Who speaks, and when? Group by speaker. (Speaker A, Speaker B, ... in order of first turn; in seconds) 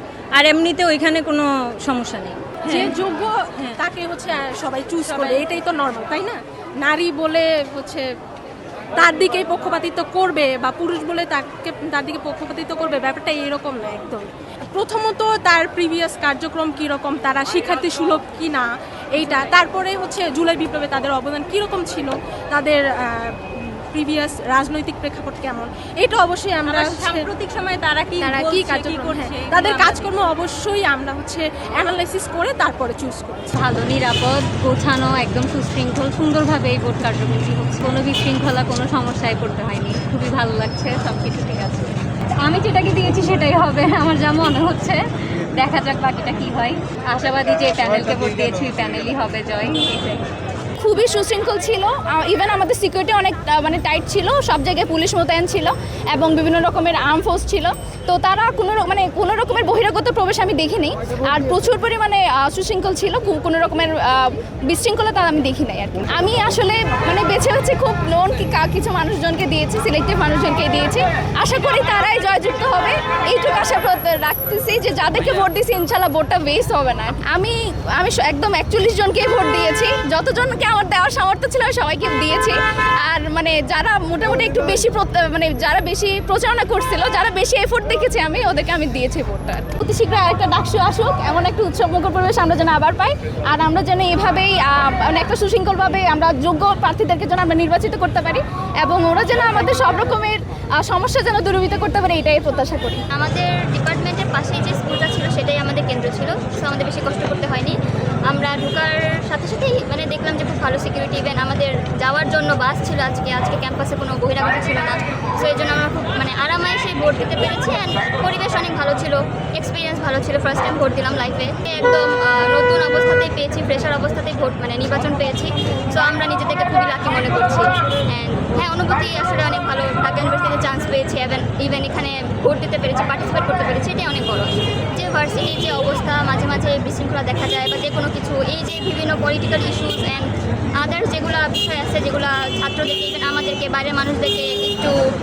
Speaker A: 0.3-3.0, 3.5-3.8, 5.0-5.5, 26.6-30.1
Speaker B: 2.6-8.1, 9.0-27.3, 28.2-33.6
Speaker C: 33.5-45.0, 45.5-50.3
Speaker D: 50.8-103.0
Speaker E: 103.2-107.8, 108.3-140.3, 140.8-144.9